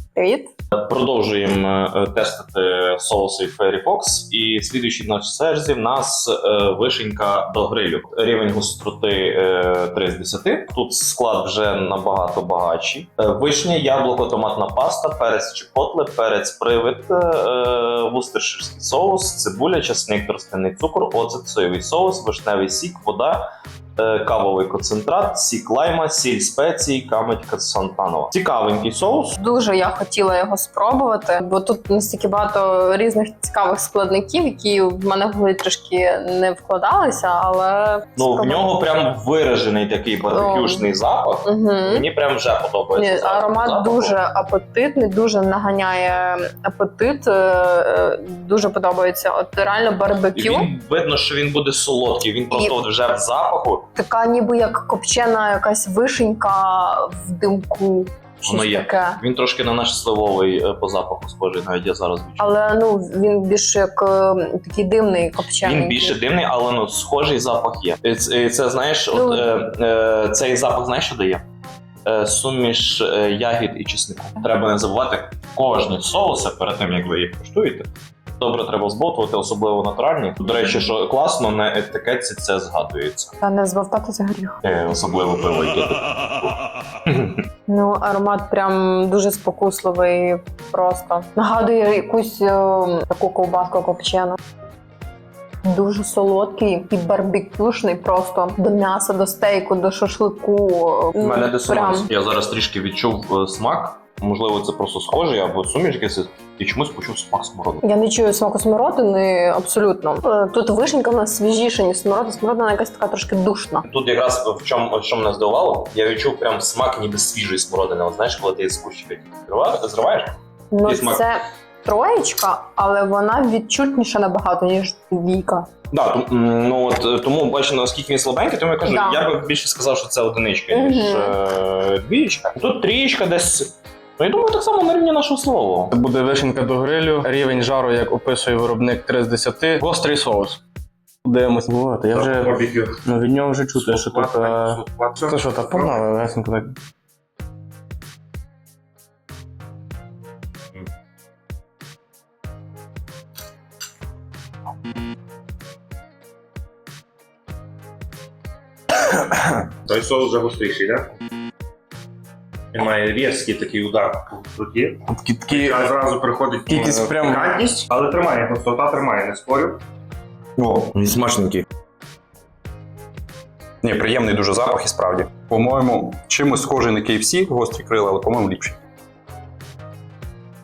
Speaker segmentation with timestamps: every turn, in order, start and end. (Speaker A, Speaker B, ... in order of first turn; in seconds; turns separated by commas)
Speaker A: 0.2-0.5, Speaker B: 0.7-23.4, Speaker B: 24.0-29.4, Speaker A: 29.4-38.7, Speaker B: 38.2-44.1, Speaker A: 40.3-40.9, Speaker A: 41.5-42.0, Speaker A: 43.0-50.7, Speaker B: 50.3-53.9, Speaker A: 52.5-52.8, Speaker A: 54.0-59.2, Speaker B: 58.4-62.5, Speaker A: 62.4-66.2, Speaker B: 65.6-71.4, Speaker A: 69.1-69.5, Speaker B: 72.1-83.3, Speaker A: 83.4-84.6, Speaker B: 84.6-86.6, Speaker B: 87.1-87.4, Speaker A: 87.7-94.4, Speaker A: 95.7-102.1, Speaker B: 101.2-107.8, Speaker A: 107.8-113.8, Speaker B: 113.8-120.3, Speaker A: 120.7-125.7, Speaker B: 120.8-121.2, Speaker B: 125.9-135.9, Speaker A: 128.8-129.2, Speaker A: 130.7-131.3, Speaker C: 135.9-140.6, Speaker C: 141.2-146.8, Speaker D: 142.1-143.0, Speaker D: 143.8-146.0, Speaker D: 158.9-161.1, Speaker D: 162.7-169.8, Speaker C: 165.1-165.9, Speaker C: 166.7-167.5, Speaker D: 170.6-171.7, Speaker E: 173.8-178.8